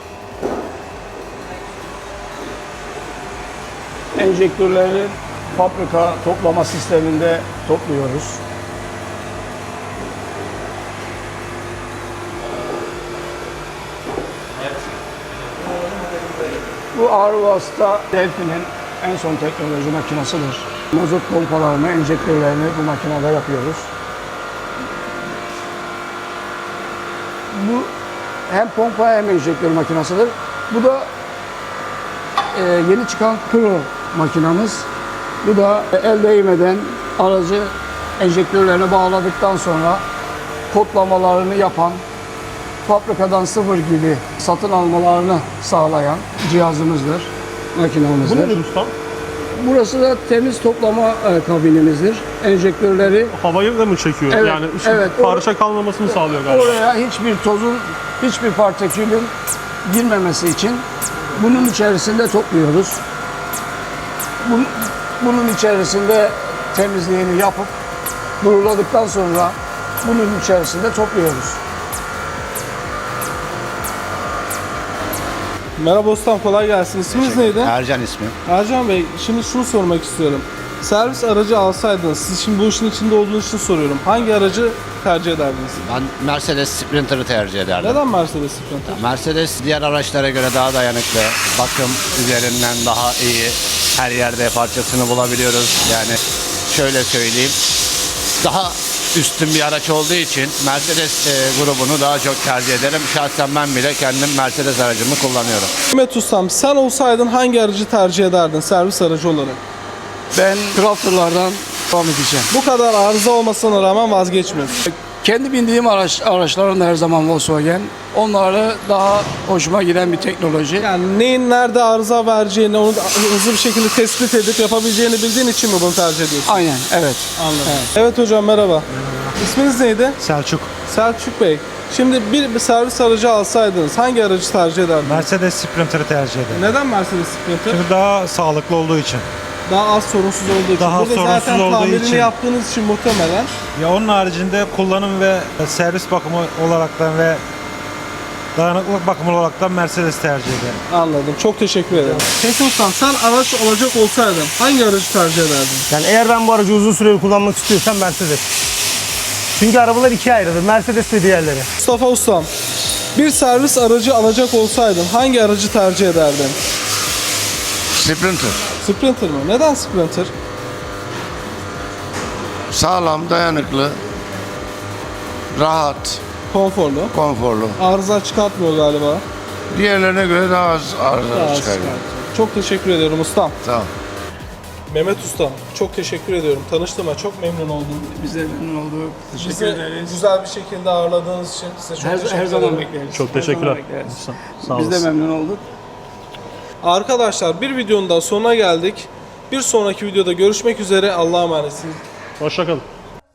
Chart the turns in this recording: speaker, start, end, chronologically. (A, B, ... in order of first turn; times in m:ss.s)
0:04.2-0:08.4 A
0:16.9-0:23.9 A
0:27.5-0:27.9 A
0:28.5-0:31.1 A
0:32.5-0:34.9 A
0:35.4-0:40.0 A
0:40.7-0:42.0 A
0:42.8-0:48.6 A
0:48.2-0:48.9 B
0:49.6-0:53.4 A
0:53.3-0:56.8 B
0:54.3-0:55.5 A
0:56.0-0:59.3 A
0:59.8-1:00.8 A
1:01.4-1:03.0 A
1:04.4-1:07.7 A
1:08.4-1:11.6 A
1:15.8-1:17.7 C
1:17.1-1:18.3 D
1:18.4-1:25.8 C
1:25.8-1:28.0 D
1:27.8-1:29.0 C
1:28.9-1:36.2 D
1:36.7-1:37.6 D
1:38.4-1:45.7 D
1:45.9-1:49.6 C
1:50.3-1:52.5 A
1:52.5-1:54.8 C
1:54.9-2:00.9 A
2:00.8-2:06.6 C
2:06.5-2:07.8 A
2:07.4-2:08.9 C
2:09.0-2:09.3 E
2:09.4-2:10.2 C
2:10.2-2:10.7 E
2:10.9-2:15.3 C
2:15.0-2:16.6 E
2:16.5-2:17.8 C
2:17.7-2:19.3 E
2:19.7-2:23.5 C
2:20.8-2:22.3 E
2:23.8-2:27.4 E
2:28.6-2:30.8 E
2:30.9-2:35.9 C
2:35.9-2:38.5 F
2:39.5-2:41.7 F
2:41.8-2:42.5 C
2:43.2-2:46.6 C
2:48.0-2:48.6 G
2:48.8-2:50.3 C
2:52.7-2:54.0 G
2:55.5-2:56.2 G
2:56.5-2:57.1 C
2:57.1-2:57.8 G
2:57.8-2:59.2 C
2:59.7-3:02.0 G
3:01.3-3:03.5 C
3:03.6-3:03.9 G
3:04.9-3:08.1 C
3:08.0-3:10.2 A
3:09.4-3:12.9 C
3:12.0-3:15.6 A
3:13.1-3:15.1 B
3:16.8-3:22.0 C
3:22.4-3:22.8 B